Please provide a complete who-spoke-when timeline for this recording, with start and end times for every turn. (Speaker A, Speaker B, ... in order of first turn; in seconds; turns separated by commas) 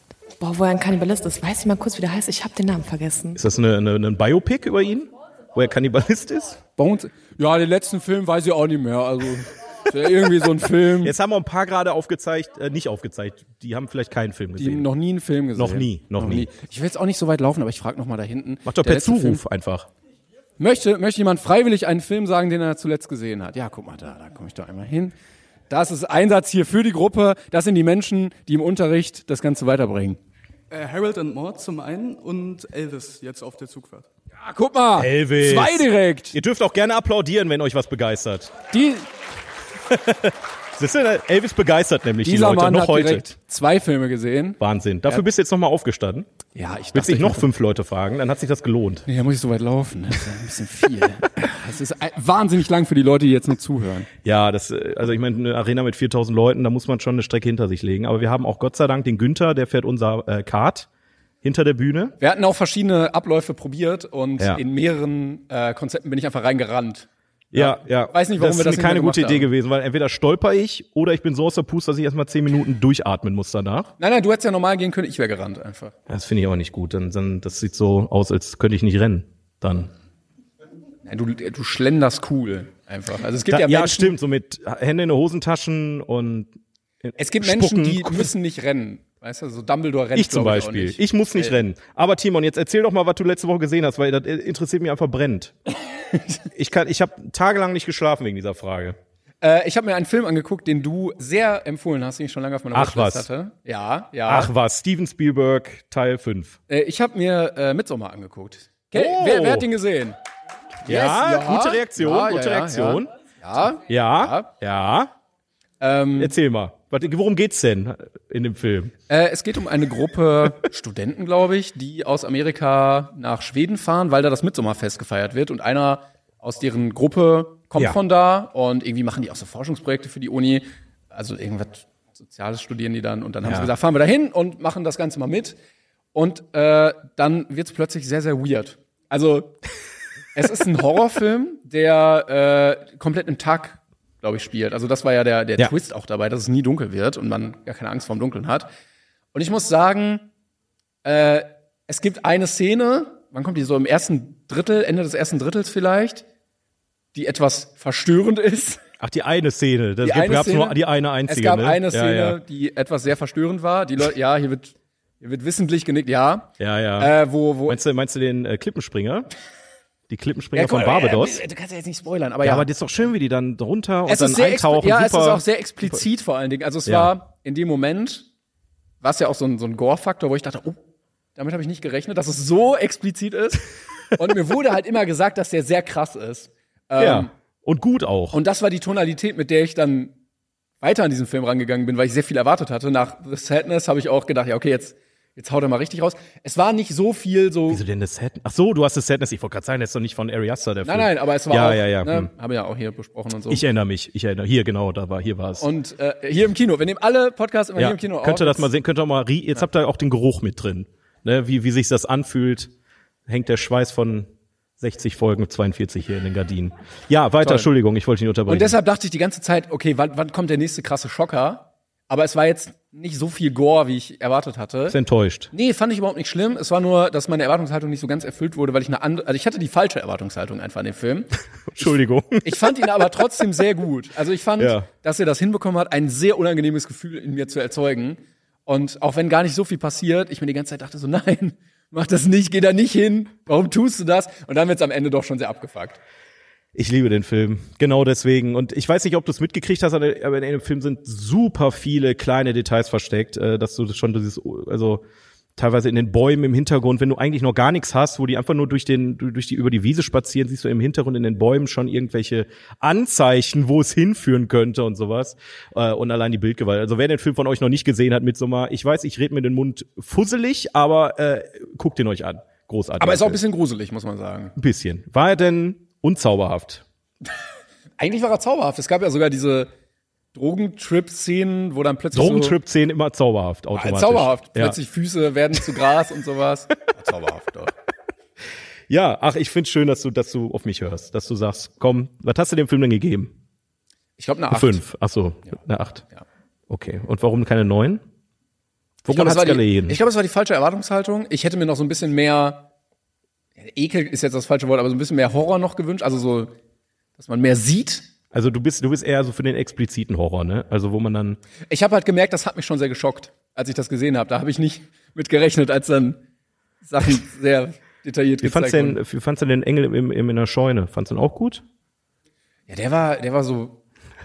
Speaker A: 0.4-3.4, Speaker B: 3.3-6.6, Speaker C: 6.8-11.1, Speaker B: 11.0-14.9, Speaker C: 14.6-19.4, Speaker B: 15.5-16.5, Speaker B: 18.6-19.9, Speaker C: 20.6-25.1, Speaker C: 25.7-30.2, Speaker D: 30.7-34.1, Speaker C: 34.4-36.4, Speaker B: 35.0-38.5, Speaker C: 38.7-39.1, Speaker B: 39.9-43.3, Speaker C: 42.2-45.2, Speaker B: 44.6-46.3, Speaker C: 46.5-47.5, Speaker B: 46.9-49.0, Speaker C: 49.0-54.1, Speaker B: 54.2-60.9, Speaker B: 61.4-62.1, Speaker C: 62.2-69.5, Speaker B: 67.5-73.9, Speaker C: 74.0-75.9, Speaker B: 76.1-79.9, Speaker C: 81.0-84.1, Speaker B: 83.5-88.3, Speaker C: 87.2-91.6, Speaker B: 90.1-95.5, Speaker C: 96.1-96.4, Speaker B: 96.5-99.0, Speaker C: 99.4-104.5, Speaker B: 102.7-103.3, Speaker B: 104.3-106.6, Speaker C: 106.7-110.2, Speaker B: 108.9-109.7, Speaker B: 110.8-113.1, Speaker C: 110.8-114.5, Speaker B: 113.9-115.1, Speaker C: 115.8-116.3, Speaker B: 116.2-118.9, Speaker C: 119.1-135.6, Speaker B: 133.4-133.7, Speaker C: 136.1-139.6, Speaker C: 140.3-148.7, Speaker C: 149.3-150.3, Speaker C: 151.0-156.2, Speaker C: 157.1-158.8, Speaker B: 159.0-162.4, Speaker C: 160.0-167.8, Speaker B: 166.6-169.3, Speaker B: 170.1-171.4, Speaker C: 170.5-172.7, Speaker B: 172.4-176.0, Speaker C: 174.1-178.2, Speaker B: 176.8-177.1, Speaker C: 179.0-180.8, Speaker C: 181.3-187.3, Speaker B: 187.0-188.4, Speaker C: 188.3-190.1, Speaker C: 190.8-197.8, Speaker B: 197.7-202.3, Speaker C: 200.8-203.6, Speaker B: 203.5-205.7, Speaker C: 205.6-208.7, Speaker B: 207.7-212.7, Speaker B: 213.3-214.3, Speaker B: 214.8-218.8, Speaker C: 217.4-217.7, Speaker C: 218.5-224.9, Speaker B: 224.9-225.5, Speaker C: 225.5-231.8, Speaker B: 231.7-232.6, Speaker C: 232.4-246.0, Speaker B: 234.6-234.9, Speaker B: 246.7-255.0, Speaker B: 255.6-273.4, Speaker C: 273.0-274.5, Speaker B: 274.6-276.8, Speaker C: 278.0-279.7, Speaker C: 280.3-282.6, Speaker B: 282.1-284.8, Speaker C: 283.7-287.7, Speaker B: 288.9-293.3, Speaker C: 294.2-294.8, Speaker B: 294.5-296.0, Speaker B: 296.7-298.0, Speaker B: 299.0-300.0, Speaker C: 299.1-302.7, Speaker C: 303.6-306.5, Speaker C: 307.2-308.1, Speaker B: 308.3-311.4, Speaker C: 311.7-316.2, Speaker C: 316.8-319.0, Speaker B: 318.4-321.6, Speaker C: 322.7-323.8